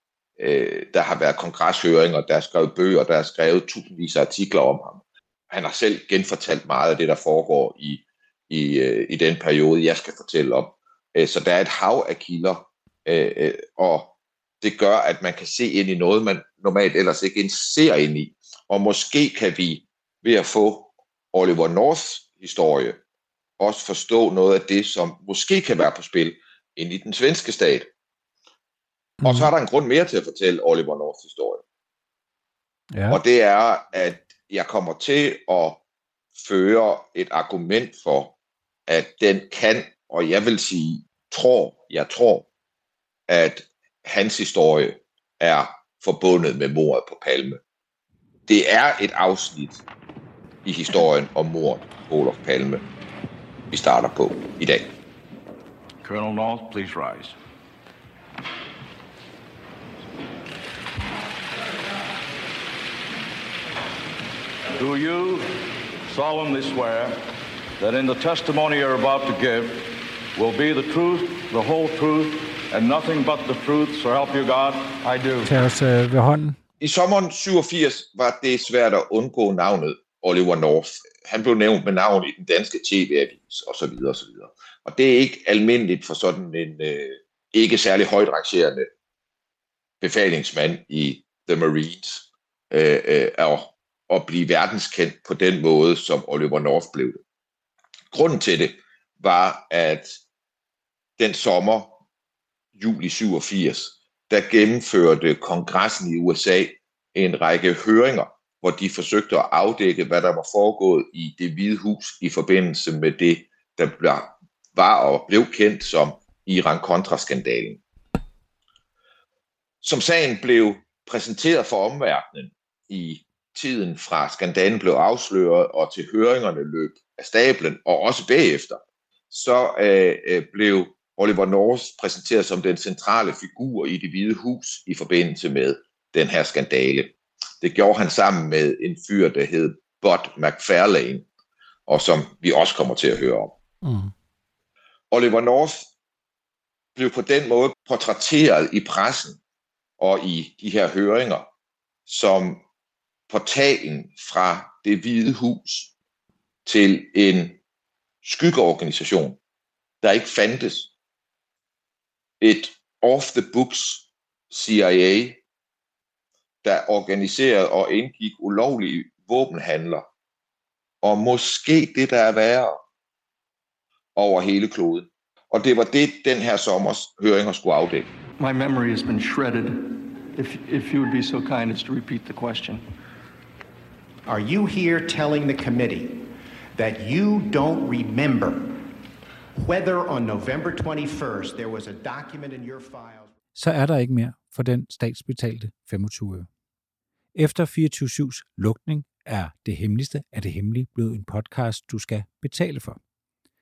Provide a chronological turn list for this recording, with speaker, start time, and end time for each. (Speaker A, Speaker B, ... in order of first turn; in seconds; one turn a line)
Speaker A: 0.4-23.0
Speaker A: 23.6-27.9
Speaker B: 29.2-29.5
Speaker A: 29.2-31.6
Speaker B: 32.9-33.2
Speaker A: 33.1-35.8
Speaker A: 36.4-38.4
Speaker A: 38.9-42.5
Speaker A: 43.3-47.6
Speaker A: 48.5-49.8
Speaker A: 50.6-52.9
Speaker A: 53.7-54.9
Speaker C: 56.0-57.4
Speaker C: 64.7-67.2
Speaker C: 67.8-75.5
Speaker B: 75.4-76.6
Speaker A: 76.8-88.9
Speaker A: 90.0-97.2
Speaker A: 98.1-100.2
Speaker A: 101.2-102.0
Speaker A: 102.8-117.8
Speaker A: 119.8-128.8
Speaker A: 129.3-141.3
Speaker A: 141.9-143.5
Speaker B: 143.8-144.1
Speaker A: 145.1-145.9
Speaker A: 147.0-149.4
Speaker A: 150.0-151.5
Speaker A: 152.1-152.6
Speaker A: 153.3-155.9
Speaker A: 156.7-157.6
Speaker A: 158.2-159.4
Speaker A: 160.0-160.9
Speaker A: 162.4-165.4
Speaker A: 166.6-170.1
Speaker A: 171.0-172.8
Speaker A: 174.2-178.1
Speaker D: 178.4-182.8
Speaker E: 184.3-186.2
Speaker E: 186.8-188.8
Speaker E: 189.6-193.3
Speaker B: 193.6-196.5
Speaker B: 197.3-203.0